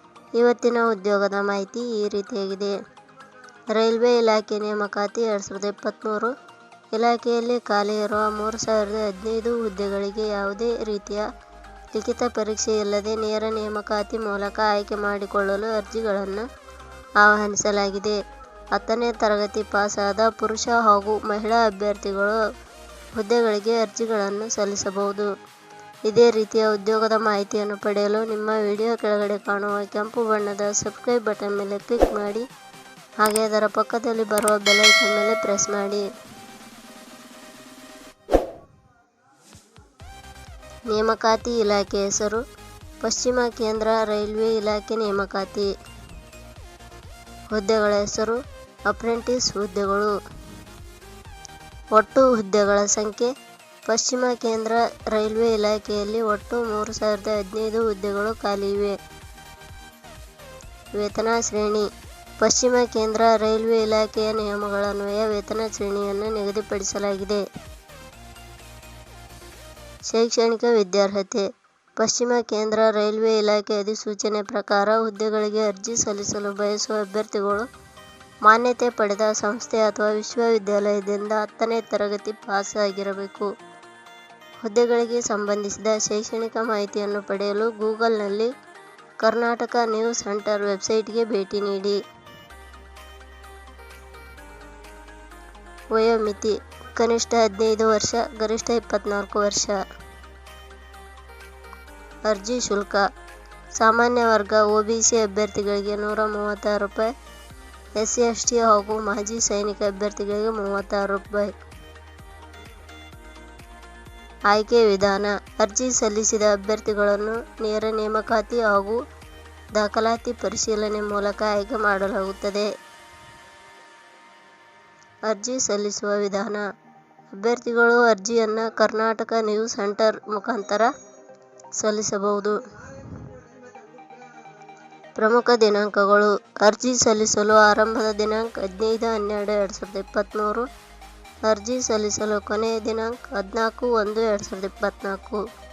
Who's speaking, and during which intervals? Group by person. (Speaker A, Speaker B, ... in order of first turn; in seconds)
Speaker A: 0.3-2.8, 3.7-6.3, 6.9-11.3, 11.9-16.4, 17.2-18.2, 18.7-22.4, 23.1-25.3, 26.1-32.5, 33.2-36.1, 40.9-42.4, 43.0-45.7, 47.5-50.1, 51.9-53.3, 53.9-59.0, 60.9-61.9, 62.4-67.4, 70.1-77.7, 78.4-83.5, 84.6-88.5, 89.2-92.0, 95.9-99.8, 102.2-103.1, 103.7-107.1, 108.0-111.6, 114.5-119.0, 119.7-122.7, 125.2-126.7, 127.3-130.9, 131.7-133.1, 135.2-140.7, 141.4-145.4